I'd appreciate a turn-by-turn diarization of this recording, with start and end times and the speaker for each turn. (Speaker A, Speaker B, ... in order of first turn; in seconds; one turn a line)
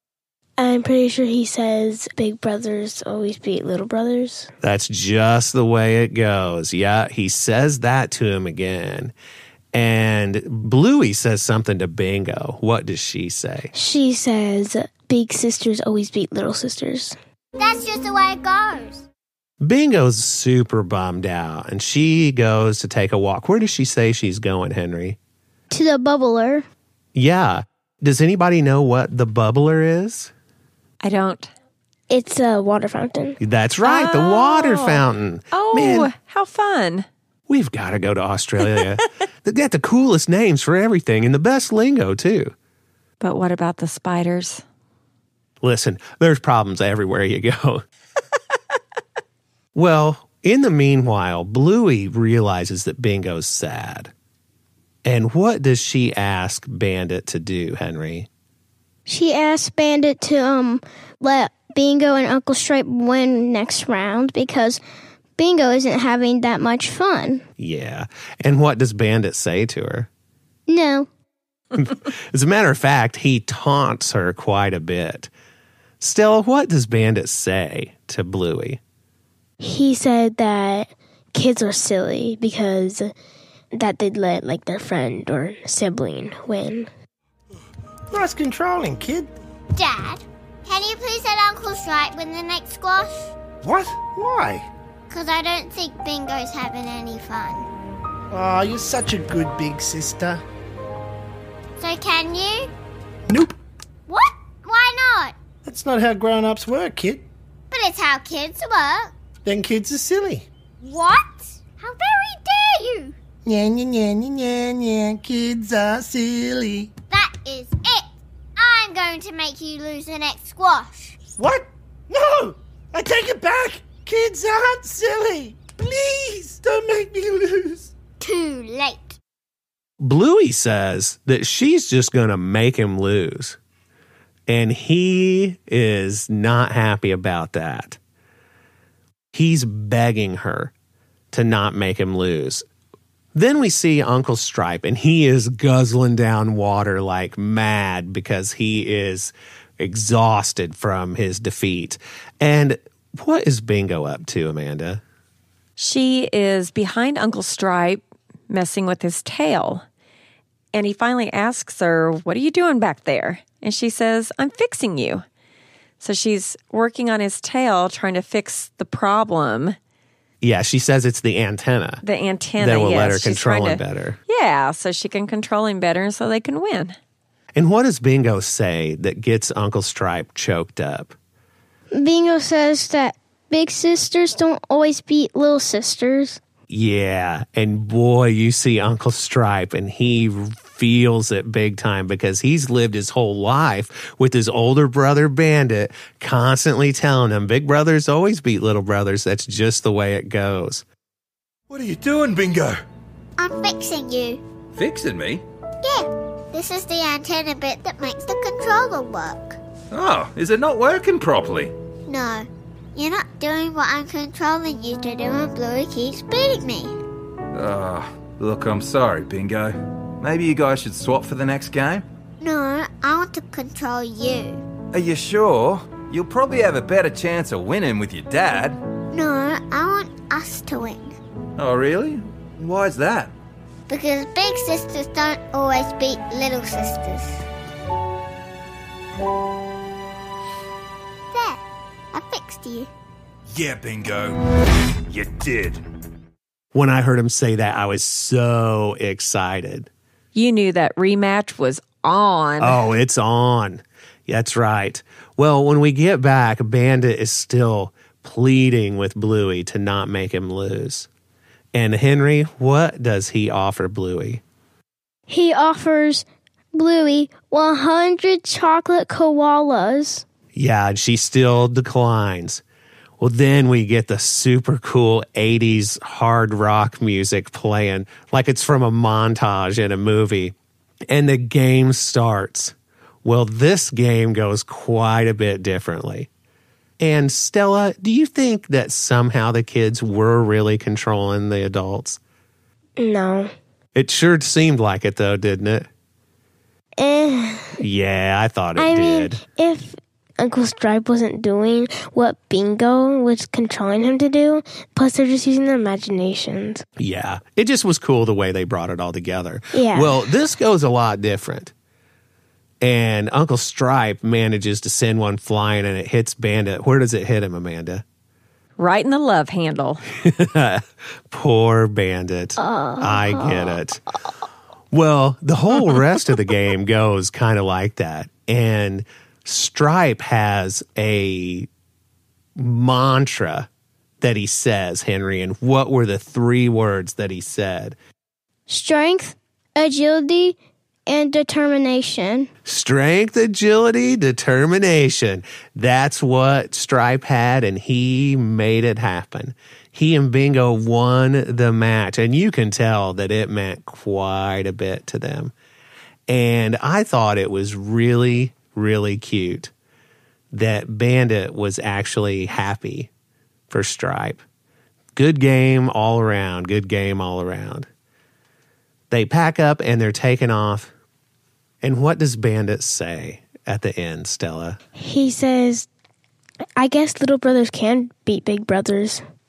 Speaker A: 0.6-4.5
Speaker B: 4.6-9.1
Speaker B: 9.7-13.7
Speaker A: 13.7-17.2
Speaker C: 17.6-19.1
Speaker B: 19.6-25.2
Speaker D: 25.7-26.7
Speaker B: 27.1-30.3
Speaker E: 31.0-31.5
Speaker A: 32.1-33.4
Speaker B: 33.4-36.1
Speaker E: 33.9-37.1
Speaker B: 37.5-42.5
Speaker E: 43.2-44.6
Speaker B: 45.6-47.8
Speaker B: 49.8-54.1
Speaker B: 55.0-58.3
Speaker D: 59.1-64.8
Speaker D: 65.4-67.4
Speaker B: 67.6-70.1
Speaker D: 70.7-71.1
Speaker B: 71.8-75.3
Speaker B: 76.0-78.8
Speaker A: 79.6-83.1
Speaker A: 83.7-86.9
Speaker F: 88.1-89.3
Speaker C: 89.8-93.4
Speaker F: 93.6-94.7
Speaker C: 95.1-97.7
Speaker F: 98.3-100.4
Speaker C: 101.8-102.7
Speaker F: 103.3-103.5
Speaker C: 104.1-105.3
Speaker F: 105.6-107.3
Speaker C: 107.7-109.1
Speaker F: 109.5-110.5
Speaker C: 110.8-113.1
Speaker F: 113.5-116.9
Speaker C: 117.1-121.2
Speaker F: 121.4-127.9
Speaker C: 128.2-129.2
Speaker B: 130.0-133.6
Speaker B: 134.5-138.0
Speaker B: 139.3-140.7
Speaker B: 141.3-142.6
Speaker B: 143.3-155.0
Speaker E: 155.8-159.8
Speaker E: 160.7-165.2
Speaker E: 166.0-169.8
Speaker B: 170.4-172.0
Speaker E: 172.0-177.0
Speaker B: 172.6-174.2
Speaker B: 177.6-181.1
Speaker D: 181.9-186.4
Speaker B: 186.7-200.8
Speaker G: 201.7-202.8
Speaker C: 203.4-204.4
Speaker G: 204.8-205.4
Speaker C: 205.8-209.6
Speaker G: 209.9-211.7
Speaker C: 212.1-216.9
Speaker G: 217.6-222.1
Speaker C: 222.4-224.6
Speaker G: 224.9-228.8
Speaker C: 229.1-231.1
Speaker G: 231.6-233.3
Speaker C: 233.9-237.4
Speaker C: 241.3-241.6
Speaker C: 242.1-242.9
Speaker G: 243.5-244.4
Speaker G: 245.1-245.8
Speaker B: 246.7-249.9
Speaker E: 250.3-252.8
Speaker B: 252.6-261.1
Speaker B: 261.7-264.4
Speaker D: 265.3-270.2
Speaker B: 270.5-272.6
Speaker B: 273.2-280.5
Speaker B: 281.1-286.3
Speaker B: 287.0-292.2
Speaker A: 293.0-293.5
Speaker B: 293.9-295.9
Speaker A: 297.0-297.8
Speaker B: 297.8-299.4
Speaker A: 298.8-306.8
Speaker B: 307.0-311.7
Speaker A: 309.8-310.2
Speaker B: 312.8-318.0
Speaker E: 318.8-320.0
Speaker B: 320.2-324.0
Speaker A: 322.6-323.8
Speaker B: 324.9-331.7
Speaker B: 332.6-333.7
Speaker B: 334.2-338.0
Speaker D: 338.7-342.5
Speaker B: 342.6-355.5
Speaker B: 356.3-359.7
Speaker B: 360.5-363.1
Speaker B: 363.7-364.4
Speaker B: 365.1-367.9
Speaker B: 369.1-370.9
Speaker B: 371.8-374.8
Speaker A: 375.0-375.9
Speaker A: 376.8-379.2